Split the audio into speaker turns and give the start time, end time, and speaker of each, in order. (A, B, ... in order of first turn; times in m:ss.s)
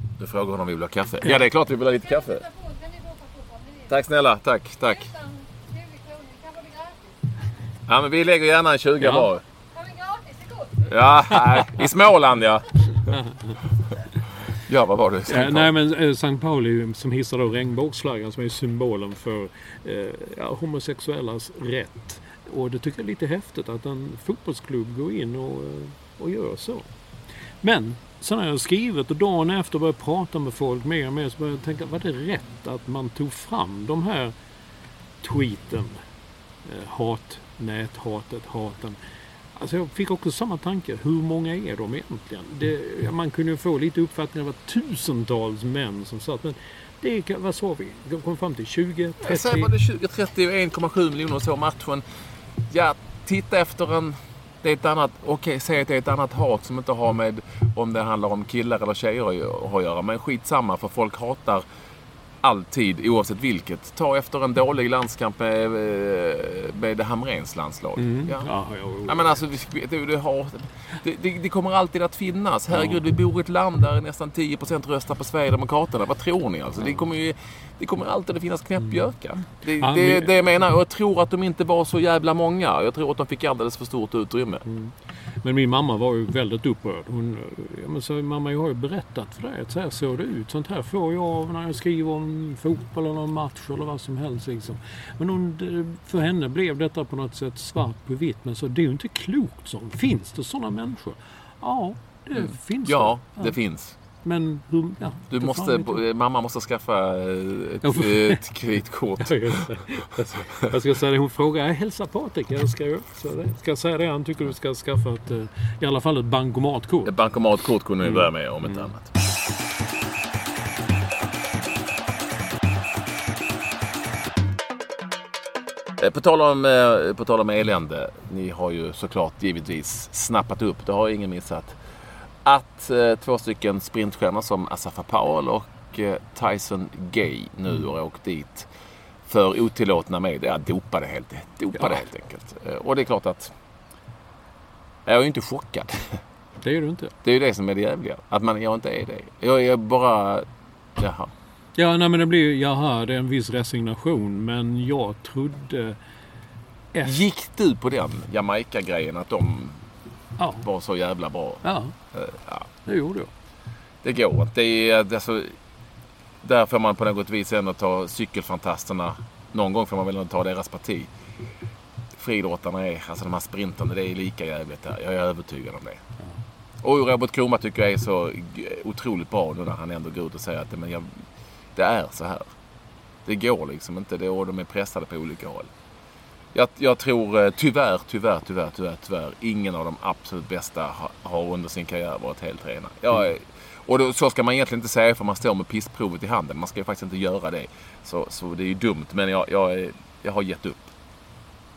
0:00.2-0:02.4 A
0:01.9-0:04.0 B
0:03.9-0:05.1 A
0:04.8-0:07.2 B
0:07.9-0:09.4 A
0:09.0-0:09.3 C
0:09.7-0:11.1 B
0:10.8-0:13.1 A
0:14.4-0:15.7 A
0:15.3-0:26.9 C
0:27.6-0:34.3 C
0:35.2-0:36.0 C
0:36.6-0:39.0 C
0:39.6-0:49.7 C
0:49.2-0:52.0 A
0:52.7-1:01.6 A
1:02.4-1:08.5 A
1:08.0-1:09.4 C
1:09.0-1:24.6 A
1:12.7-1:13.0 C
1:19.8-1:20.4 C
1:24.6-1:43.6 C
1:42.3-1:44.0 A
1:44.2-1:46.0 C
1:45.3-1:49.7 A
1:47.8-1:48.4 C
1:49.2-1:57.1 C
1:57.0-1:59.1 A
1:58.0-1:58.9 C
2:06.0-2:11.8 A
2:12.4-2:18.7 A
2:19.2-2:23.5 A
2:21.8-2:22.0 C
2:25.0-2:26.2 A
2:26.6-2:27.1 C
2:27.2-2:31.3 A
2:31.8-2:36.0 C
2:36.9-2:37.2 C
2:37.0-2:39.8 A
2:40.4-2:40.6 C
2:40.6-2:42.7 A
2:41.6-2:41.9 C
2:42.8-2:43.3 C
2:44.0-2:45.6 A
2:46.4-2:51.1 A
2:52.1-2:56.0 A
2:56.8-3:01.2 A
3:01.7-3:02.5 A
3:03.2-3:05.7 A
3:06.5-3:20.9 A